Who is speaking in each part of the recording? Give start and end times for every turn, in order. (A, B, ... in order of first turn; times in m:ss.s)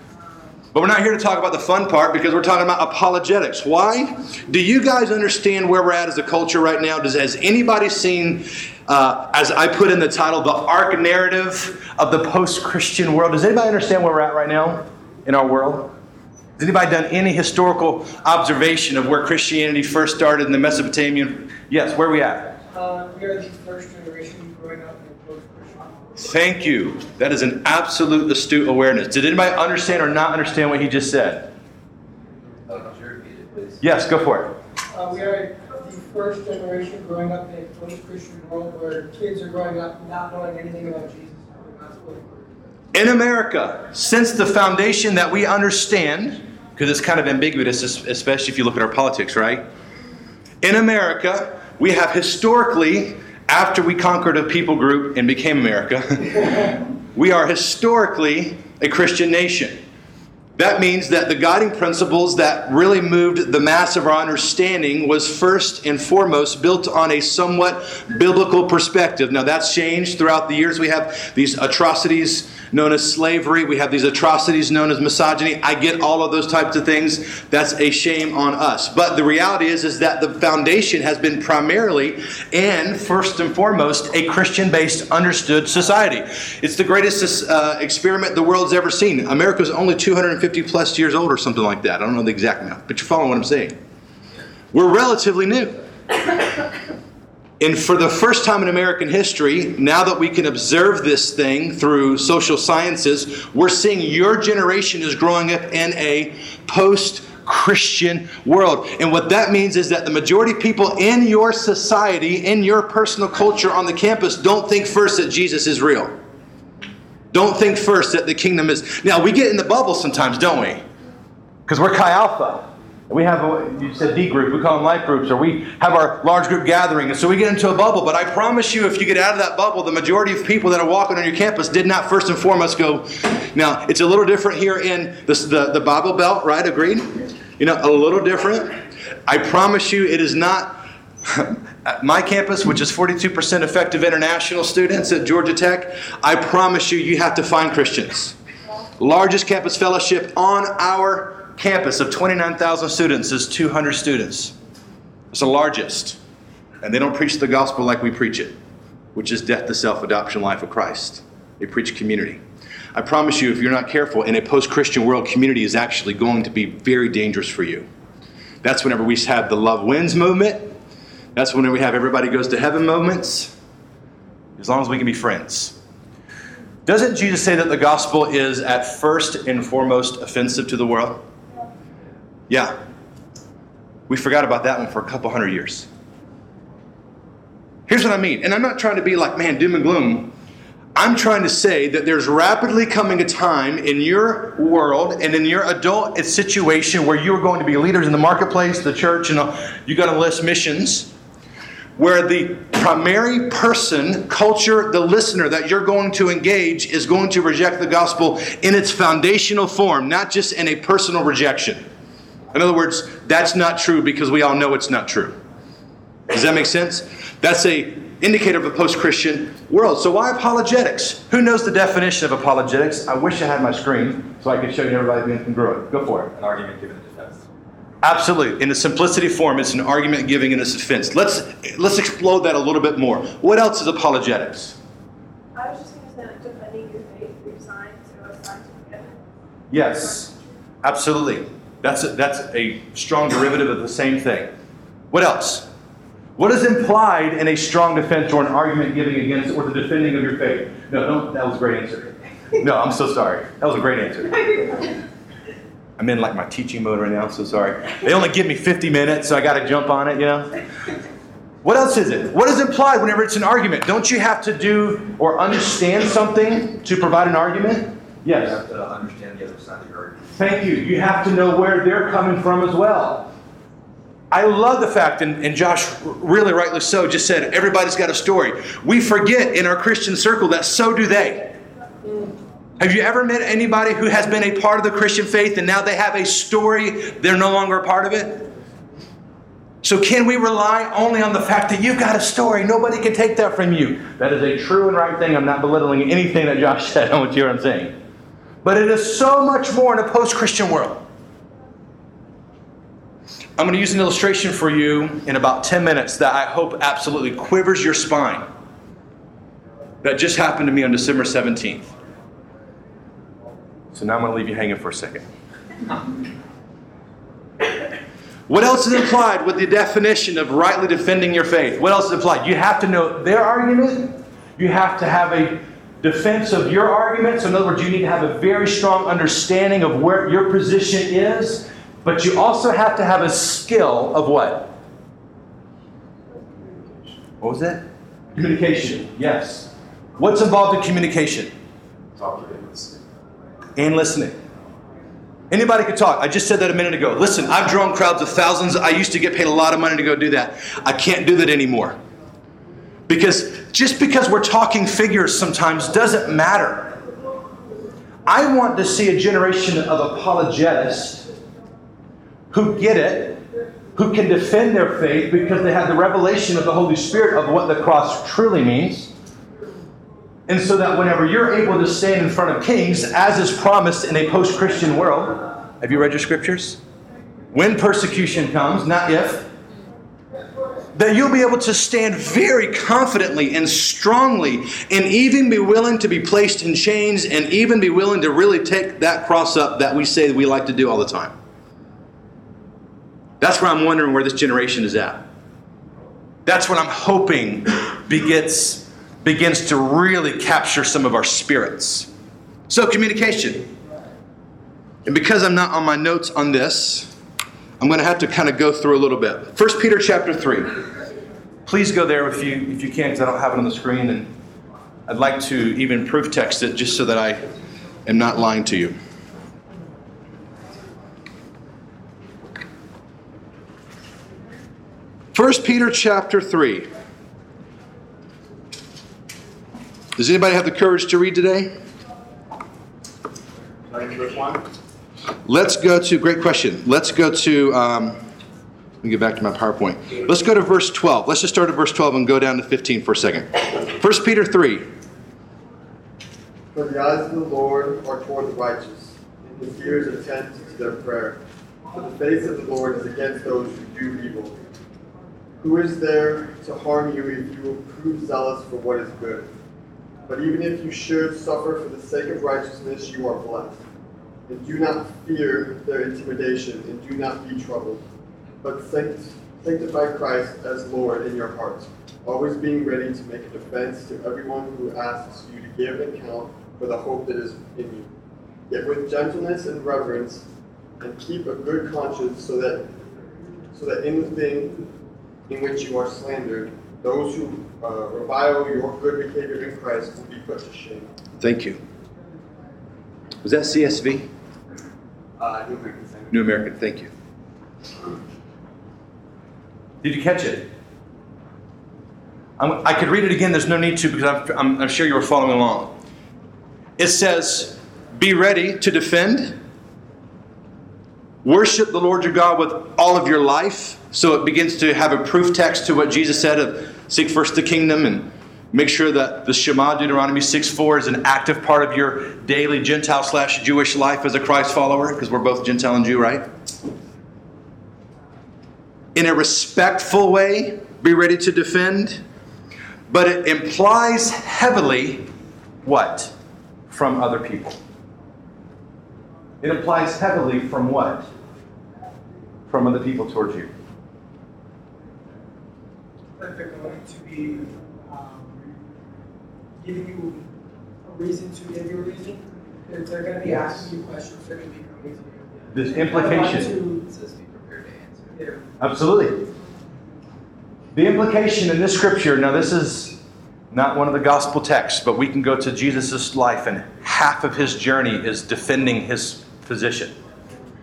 0:00.7-0:15.9 A
0:16.6-0:22.6 A
0:22.7-0:25.9 B
0:26.2-0:31.5 A
0:32.7-0:33.8 C
0:33.8-0:34.5 A
0:34.9-0:42.4 B
0:42.9-0:49.6 A
0:50.6-0:59.8 A
1:00.6-1:33.8 A
1:34.7-1:35.8 A
1:37.6-1:56.1 A
1:57.3-2:00.8 A
2:01.7-2:18.7 A
2:19.3-2:28.4 A
2:29.0-2:34.6 A
2:35.3-2:36.2 A
2:36.8-2:38.6 A
2:39.2-2:42.4 A
2:42.9-2:47.9 A
2:48.6-2:50.7 A
2:51.4-2:53.5 A
2:54.6-2:55.8 A
2:56.9-3:01.2 A
3:04.1-3:05.9 A
3:07.9-3:10.3 A
3:11.0-3:21.1 A
3:22.0-3:31.8 A
3:32.5-3:35.4 A
3:36.3-3:47.3 A
3:48.0-3:54.8 A
3:55.6-3:59.2 D
3:59.7-4:04.5 A
4:05.1-4:05.7 A
4:06.4-4:14.6 A
4:16.0-4:20.5 A
4:21.6-4:28.6 A
4:28.3-4:30.3 C
4:30.4-4:33.3 A
4:34.3-4:41.6 A
4:42.8-4:48.5 A
4:49.8-4:58.0 A
4:58.6-5:01.0 A
5:03.6-5:08.5 A
5:10.0-5:11.9 A
5:13.9-5:15.3 A
5:18.5-5:34.7 A
5:37.4-5:37.8 A
5:38.4-5:41.5 A
5:42.2-5:43.0 C
5:43.8-5:44.4 A
5:45.5-5:52.0 A
5:53.1-5:57.0 A
5:58.3-6:01.3 A
6:02.5-6:03.4 A
6:04.0-6:09.1 A
6:10.5-6:16.8 A
6:17.5-6:19.5 A
6:20.9-6:31.3 A
6:33.4-6:35.2 A
6:36.5-6:42.1 A
6:42.7-6:43.7 A
6:45.1-6:47.1 A
6:47.8-6:50.7 A
6:51.7-6:54.3 A
6:55.1-6:57.5 A
6:58.1-6:59.0 A
7:05.3-7:06.9 A
7:10.2-7:11.7 A
7:14.0-7:14.5 E
7:15.5-7:18.2 A
7:19.0-7:24.9 A
7:26.7-7:31.4 E
7:31.9-7:34.6 E
7:35.6-7:39.5 E
7:40.3-7:43.8 E
7:44.5-7:48.0 E
7:48.6-7:58.1 E
7:58.7-8:00.4 E
8:01.0-8:02.8 E
8:03.7-8:04.9 E
8:05.5-8:11.1 E
8:11.4-8:11.8 A
8:13.4-8:14.3 A
8:15.4-8:16.3 E
8:16.3-8:17.1 A
8:20.0-8:20.7 A
8:22.6-8:26.0 A
8:27.0-8:29.6 A
8:31.4-8:46.5 A
8:49.2-8:52.2 A
8:53.1-8:55.3 A
8:55.8-8:56.3 A
8:56.9-8:57.8 A
8:59.6-9:01.3 A
9:02.7-9:03.7 A
9:06.4-9:08.8 B
9:09.8-9:10.4 B
9:11.0-9:17.0 B
9:13.5-9:13.8 A
9:15.7-9:16.7 A
9:16.1-9:18.4 C
9:18.3-9:18.6 B
9:18.8-9:19.5 A
9:20.9-9:30.2 A